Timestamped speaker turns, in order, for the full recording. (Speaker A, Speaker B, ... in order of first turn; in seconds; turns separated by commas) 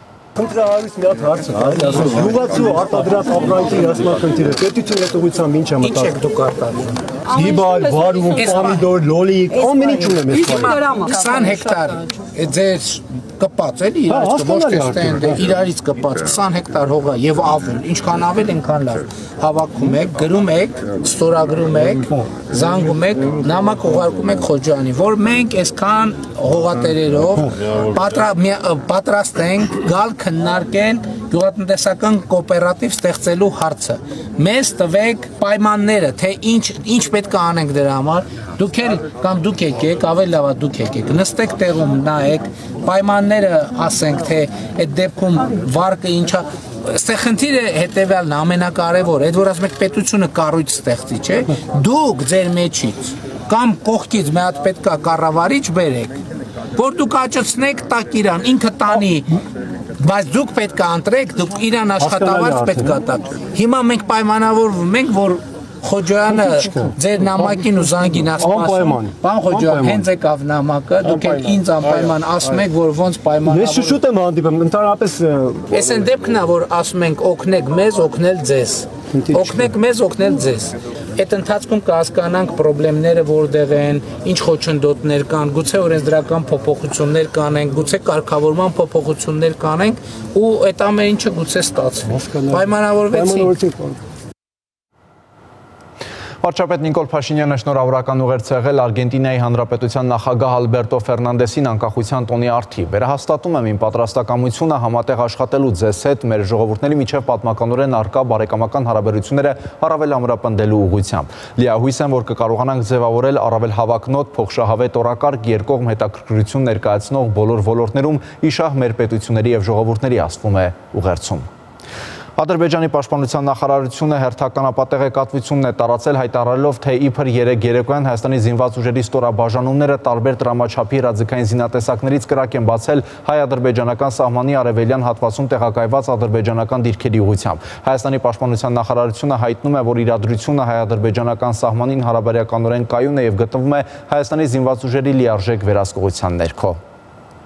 Speaker A: 0.4-6.1, Speaker B: 5.8-7.0, Speaker A: 7.3-10.8, Speaker B: 8.3-8.9, Speaker B: 10.3-56.1, Speaker A: 14.1-15.3, Speaker B: 56.8-59.4, Speaker B: 60.0-74.0, Speaker A: 62.0-63.0, Speaker A: 68.4-70.1, Speaker A: 71.0-71.4, Speaker A: 73.4-75.8, Speaker B: 75.7-93.6, Speaker A: 79.2-79.7, Speaker A: 92.2-94.0, Speaker C: 96.4-121.5, Speaker C: 122.4-146.8